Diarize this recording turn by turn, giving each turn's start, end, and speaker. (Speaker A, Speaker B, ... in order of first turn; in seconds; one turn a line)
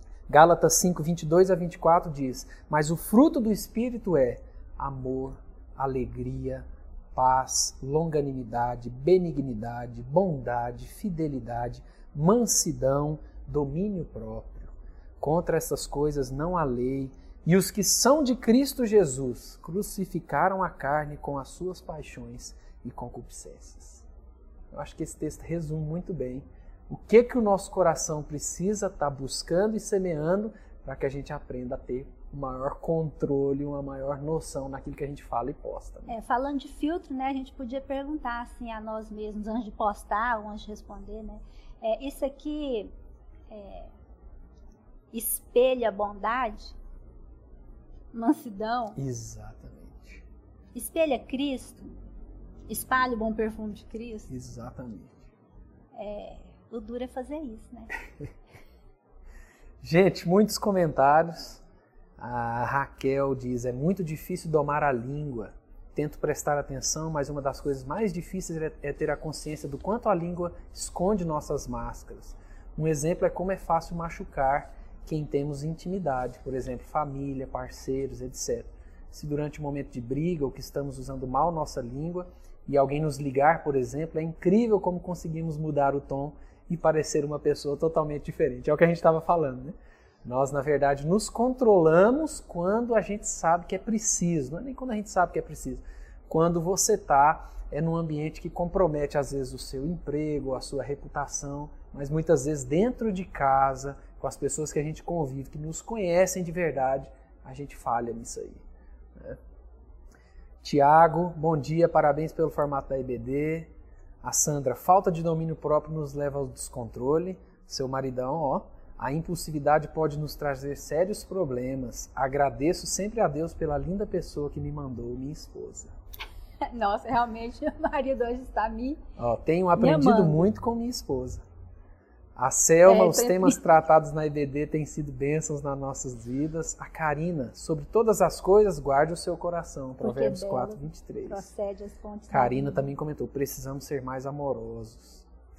Speaker A: 0.3-24.1
Speaker A: 24.7-36.1
Speaker B: 36.1-42.9
Speaker B: 43.5-43.9
Speaker B: 45.1-46.8
Speaker B: 48.1-49.0
Speaker A: 49.0-50.2
Speaker B: 50.8-51.9
Speaker B: 52.7-54.3
Speaker A: 54.3-55.2
Speaker B: 56.0-57.9
Speaker A: 59.8-61.6
Speaker A: 62.2-108.6
Speaker A: 110.6-113.7
Speaker A: 114.2-125.9
Speaker B: 126.7-129.0
Speaker A: 129.2-131.4
Speaker B: 129.8-130.5
Speaker A: 132.4-141.5
Speaker B: 132.9-133.6
Speaker B: 140.0-142.8
Speaker A: 142.3-145.2